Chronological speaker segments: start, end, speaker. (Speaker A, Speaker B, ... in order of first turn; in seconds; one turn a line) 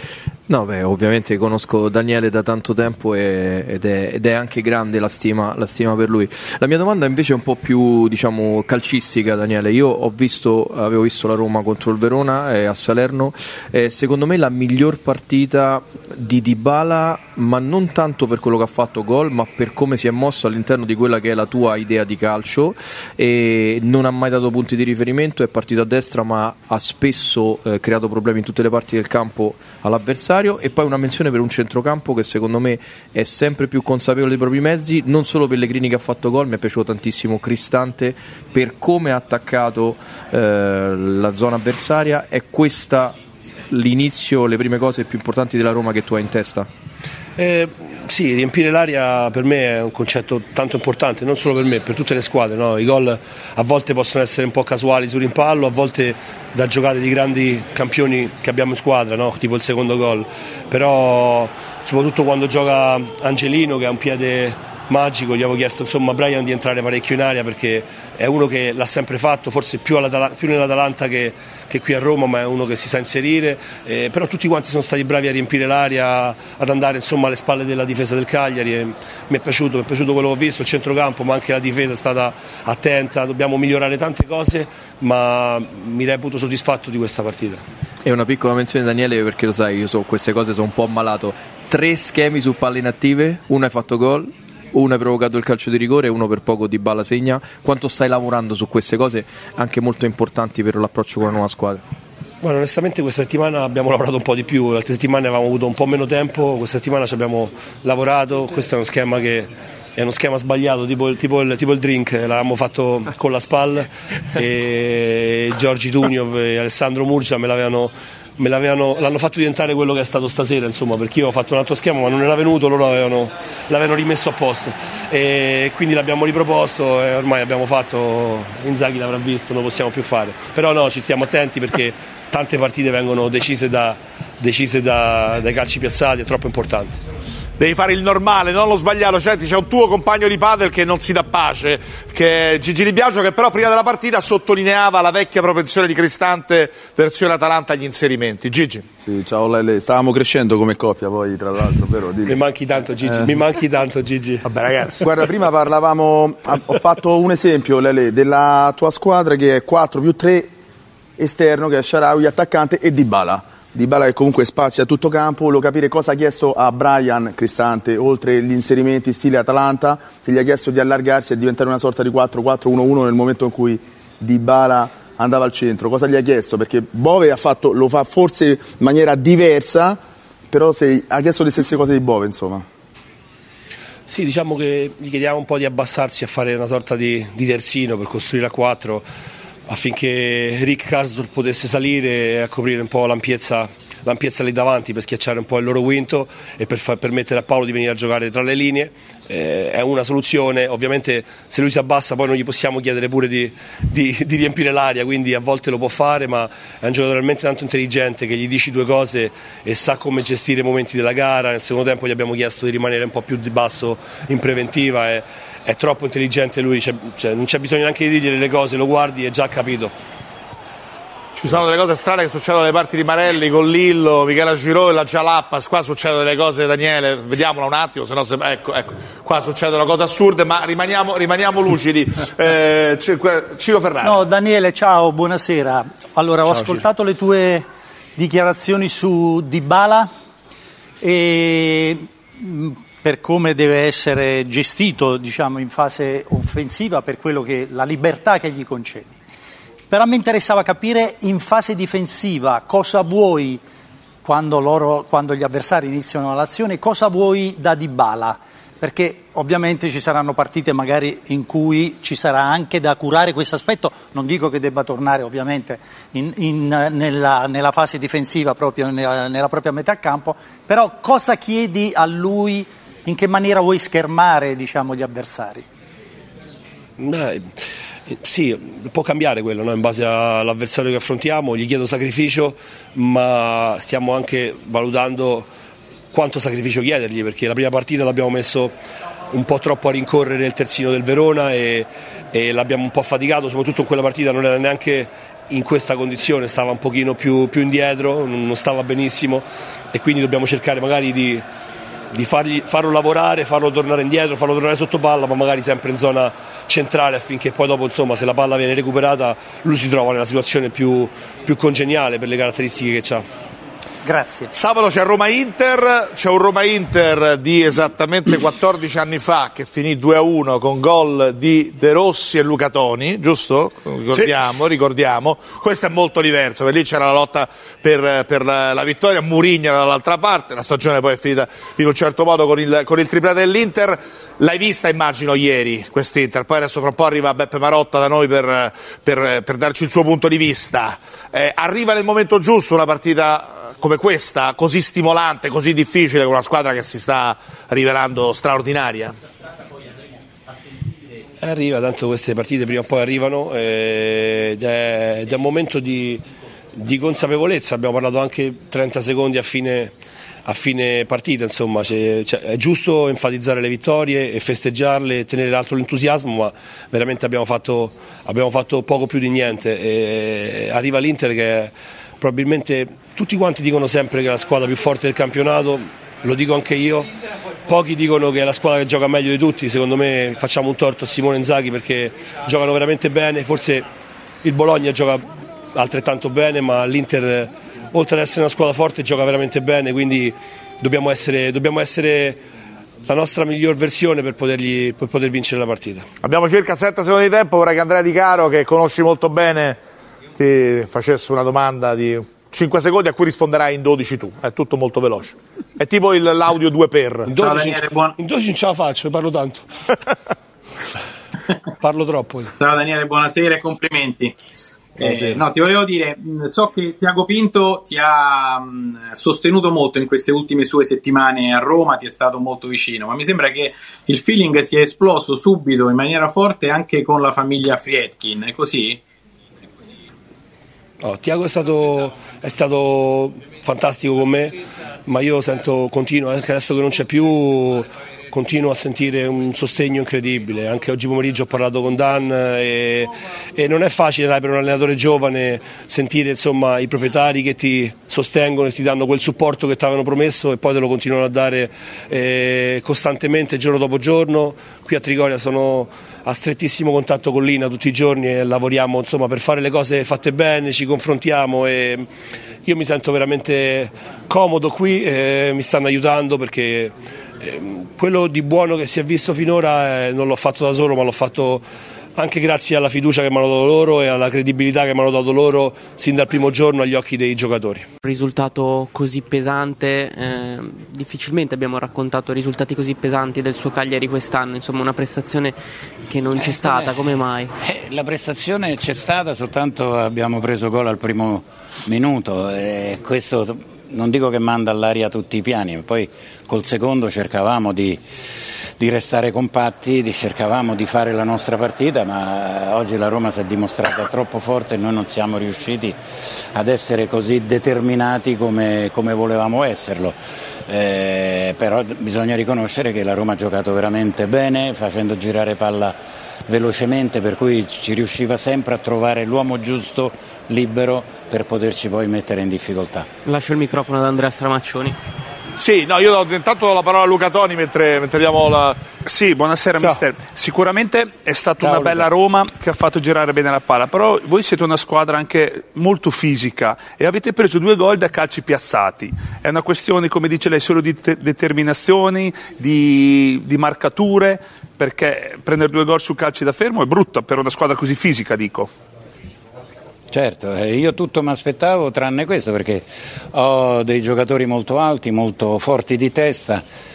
Speaker A: 0.5-43.2
Speaker A: 43.7-46.7
Speaker B: 47.4-87.6
Speaker A: 88.0-101.8
Speaker B: 102.4-137.0
Speaker C: 137.6-148.9
Speaker D: 149.0-152.4
Speaker B: 152.3-154.4
Speaker D: 153.0-153.4
Speaker C: 154.4-155.0
Speaker D: 155.0-160.5
Speaker D: 161.2-180.0
Speaker D: 180.5-182.7
Speaker B: 184.1-189.1
Speaker B: 189.7-219.9
Speaker C: 221.3-234.2
Speaker E: 234.0-240.1
Speaker E: 241.0-249.2
Speaker E: 249.9-253.6
Speaker E: 254.2-275.6
Speaker B: 277.0-285.5
Speaker B: 286.1-288.8
Speaker B: 289.3-301.4
Speaker B: 302.1-313.2
Speaker E: 314.0-314.5
Speaker C: 314.5-349.1
Speaker B: 351.4-359.9
Speaker B: 360.4-377.1
Speaker B: 377.6-383.9
Speaker B: 384.4-392.4
Speaker B: 393.1-396.1
Speaker C: 396.2-399.8
Speaker C: 400.4-407.3
Speaker B: 407.3-409.6
Speaker F: 407.3-408.1
Speaker B: 411.8-412.5
Speaker F: 412.6-414.4
Speaker F: 414.9-429.0
Speaker B: 415.1-415.4
Speaker B: 431.0-462.1
Speaker B: 462.6-471.6
Speaker B: 472.1-477.9
Speaker G: 478.0-487.5
Speaker H: 486.4-487.0
Speaker H: 487.6-498.0
Speaker H: 498.8-506.0
Speaker H: 506.5-516.0
Speaker H: 516.5-523.1
Speaker G: 523.2-525.0
Speaker C: 525.6-528.8
Speaker I: 529.0-548.7
Speaker C: 529.8-530.0
Speaker H: 550.1-556.6